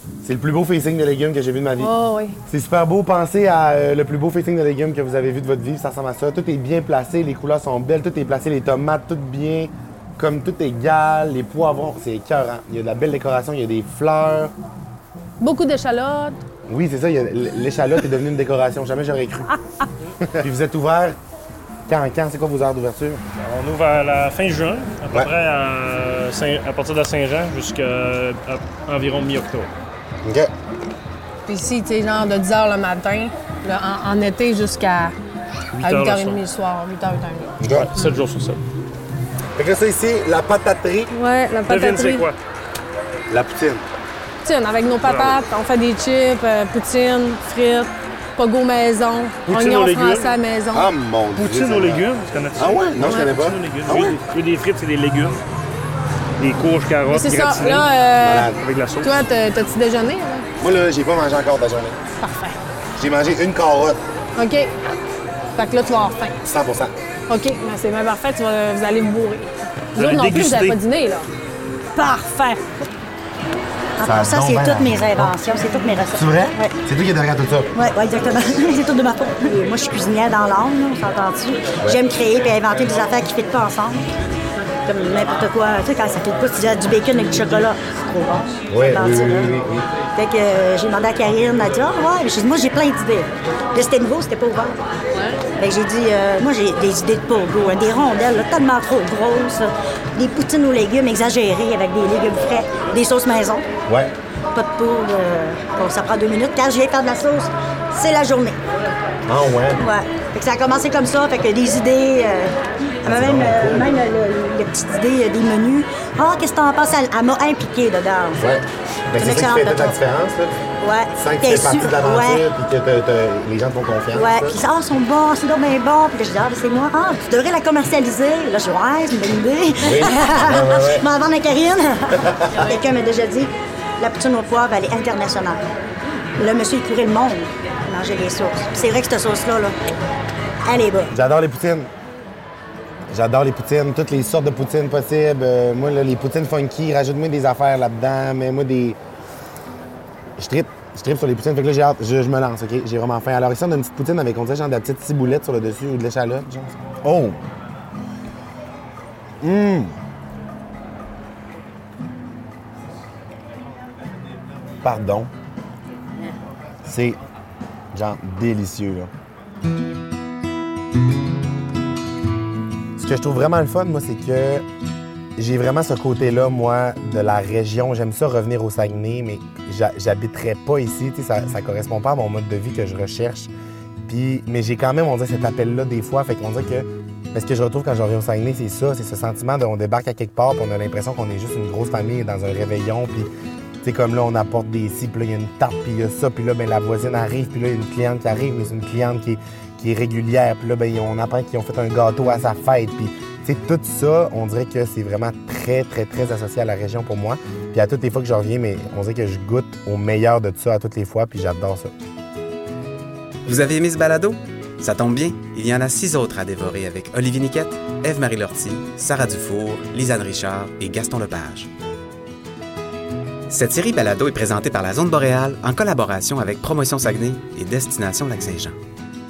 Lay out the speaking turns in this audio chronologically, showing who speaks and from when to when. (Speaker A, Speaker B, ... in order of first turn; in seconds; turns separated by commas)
Speaker A: 0.2-1.9, Speaker B: 1.8-2.4, Speaker A: 2.5-14.5, Speaker B: 15.4-16.4, Speaker A: 16.7-19.5, Speaker A: 20.2-21.2, Speaker A: 21.9-23.2, Speaker C: 23.4-29.7, Speaker A: 30.2-30.5, Speaker B: 31.4-35.1, Speaker C: 35.7-36.4, Speaker B: 35.8-37.5, Speaker A: 37.6-37.9, Speaker C: 37.7-38.6, Speaker A: 39.5-41.1, Speaker B: 41.1-42.3, Speaker C: 41.6-42.3, Speaker A: 43.3-43.8, Speaker B: 44.4-50.9, Speaker C: 45.0-45.4, Speaker C: 49.5-50.3, Speaker A: 50.7-52.0, Speaker C: 51.4-55.4, Speaker A: 52.5-54.2, Speaker C: 56.4-57.9, Speaker B: 57.1-60.5, Speaker A: 58.2-58.6, Speaker C: 58.5-59.2, Speaker A: 60.6-62.0, Speaker B: 62.2-62.6, Speaker A: 63.0-64.0, Speaker B: 64.3-64.7, Speaker B: 65.5-66.4, Speaker A: 66.4-66.9, Speaker B: 67.3-71.3, Speaker C: 69.9-70.8, Speaker B: 71.9-72.6, Speaker D: 74.0-76.8, Speaker A: 74.0-75.3, Speaker A: 76.1-77.8, Speaker D: 77.7-84.0, Speaker D: 84.8-89.5, Speaker A: 88.7-89.9, Speaker D: 90.1-94.8, Speaker D: 95.6-103.7, Speaker A: 103.9-104.1, Speaker D: 104.5-108.6, Speaker A: 109.3-109.8, Speaker D: 109.8-118.4, Speaker A: 113.0-113.9, Speaker A: 118.4-120.6, Speaker D: 119.2-120.0, Speaker D: 120.8-122.4, Speaker A: 121.2-124.6, Speaker D: 124.1-135.6, Speaker A: 129.8-131.1, Speaker A: 132.2-132.6, Speaker D: 136.4-139.8, Speaker D: 140.7-141.1, Speaker A: 141.1-141.9, Speaker A: 143.1-149.0, Speaker A: 150.4-157.4, Speaker A: 159.4-160.0, Speaker A: 164.8-165.3, Speaker A: 166.8-167.2, Speaker A: 167.9-169.1, Speaker A: 172.9-174.6, Speaker A: 175.4-183.5, Speaker A: 184.1-193.3, Speaker A: 193.8-211.9, Speaker E: 213.4-221.7, Speaker E: 223.5-228.8